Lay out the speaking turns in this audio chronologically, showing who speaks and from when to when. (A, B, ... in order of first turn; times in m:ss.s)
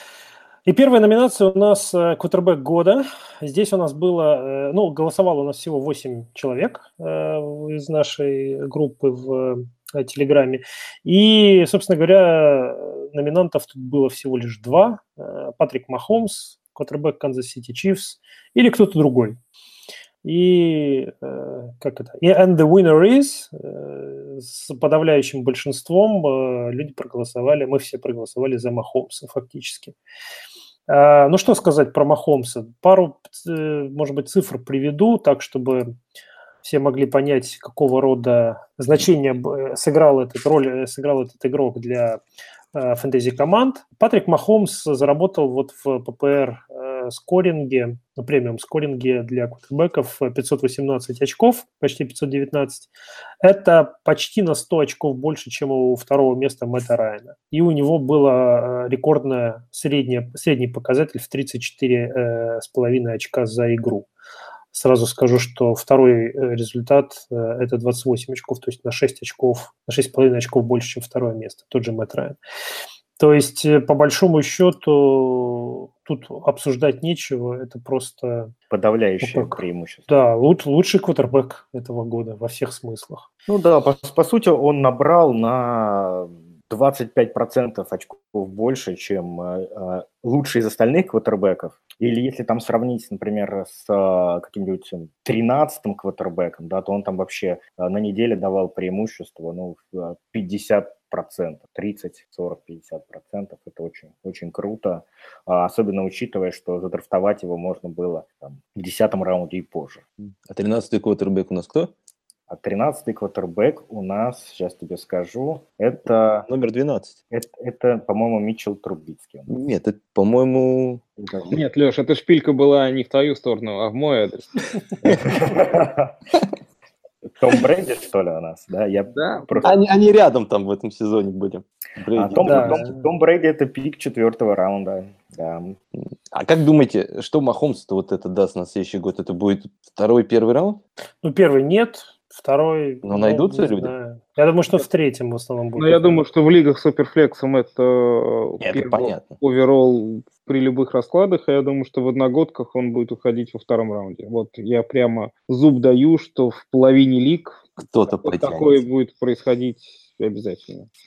0:00.6-0:19.4 A
0:20.2-0:29.9 A
0:30.9-0:35.9 A
0:36.6-0:42.2 A
0:42.7-0:52.9 A
0:53.4-1:04.1 A
1:04.7-1:12.4 A
1:13.2-1:18.5 A
1:18.7-1:20.1 B
1:19.2-1:23.2 A
1:23.5-1:50.0 B
1:50.4-1:51.9 C
1:52.5-1:56.4 B
1:56.5-1:57.2 C
1:57.3-1:59.5 B
1:59.5-2:01.5 C
2:01.2-2:01.5 B
2:01.5-2:04.6 D
2:05.0-2:06.1 B
2:07.4-2:09.8 B
2:09.1-2:09.6 D
2:09.6-2:12.8 C
2:12.1-2:15.8 B
2:12.4-2:13.0 A
2:16.3-2:20.8 C
2:21.2-2:26.2 A
2:23.0-2:23.9 C
2:25.8-2:37.6 D
2:28.6-2:29.3 C
2:37.8-2:38.8 C
2:38.2-2:40.9 D